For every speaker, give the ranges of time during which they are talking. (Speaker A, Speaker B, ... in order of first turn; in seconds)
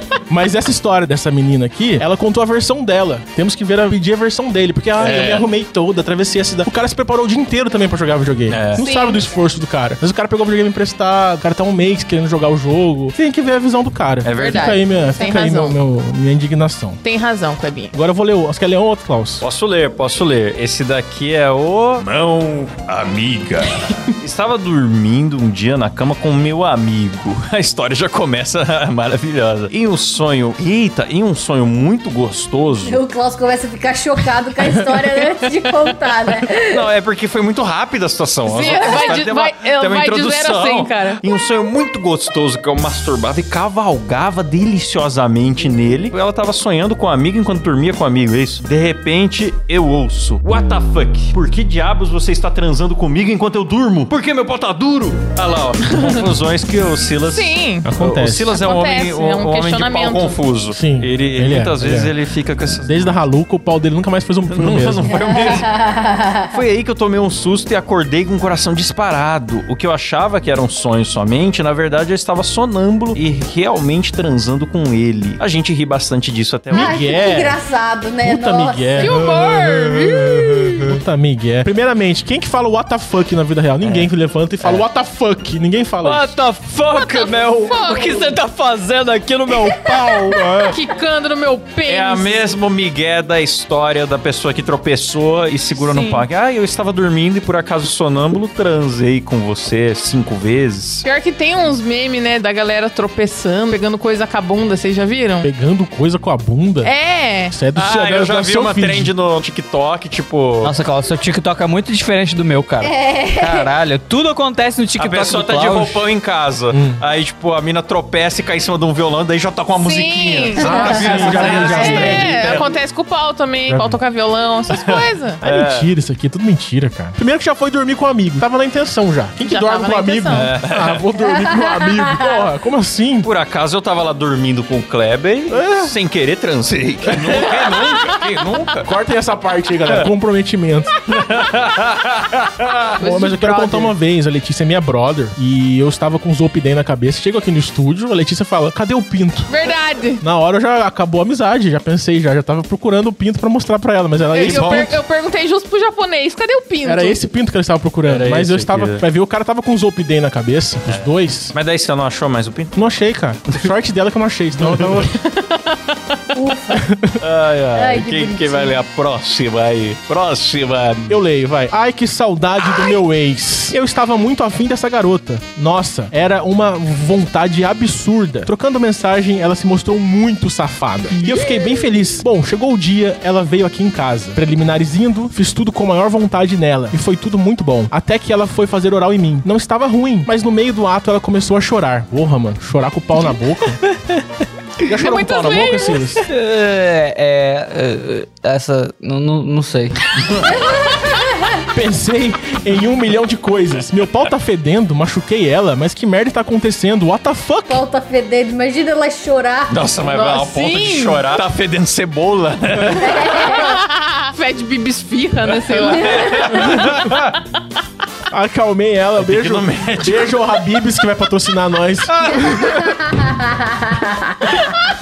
Speaker A: 0.3-17.0, 17.9-19.4, 57.8-58.6, 60.7-62.1, 62.8-65.3, 76.7-77.6, 78.2-86.3, 90.1-90.5, 105.4-106.9, 107.5-109.1, 116.7-117.0, 120.6-122.7, 123.7-124.0, 125.4-133.3, 135.5-135.9, 137.1-137.6, 138.8-140.9, 143.0-149.6, 150.2-155.0, 156.8-161.5, 162.8-165.1, 166.8-167.2, 171.1-193.8, 194.8-196.2, 201.7-207.8, 216.7-217.1, 218.3-223.0
Speaker B: 5.0-5.5, 8.5-8.9, 14.2-14.9, 19.4-33.0, 36.6-63.2, 64.5-65.8, 66.5-77.0, 83.8-84.1, 91.9-101.0, 107.7-110.7, 115.0-122.7, 124.7-125.9, 130.3-131.0, 133.2-138.9, 141.1-143.0, 154.3-155.0, 158.0-159.0, 160.8-162.8, 164.6-165.0, 167.2-171.2, 209.7-213.6, 215.6-217.4, 219.2-220.4, 222.1-222.8
Speaker C: 8.8-9.3, 14.3-15.8, 17.0-17.9, 38.5-41.2, 57.2-57.9, 58.5-60.4, 79.0-80.7, 86.9-88.3, 90.7-92.4, 95.8-96.2, 101.0-105.5, 106.8-107.5, 119.8-125.4, 129.4-130.5, 143.0-143.9, 149.5-150.2, 154.3-157.2, 165.1-166.2, 194.9-196.1, 210.0-211.4, 213.4-216.6
Speaker D: 32.8-36.8, 65.3-66.5, 76.7-79.1, 112.8-113.7, 166.3-166.8, 167.7-168.8, 200.4-201.6, 207.7-209.9, 212.9-213.7, 215.9-216.5, 223.0-224.4
Speaker E: 86.0-90.8, 110.6-116.0, 196.3-200.0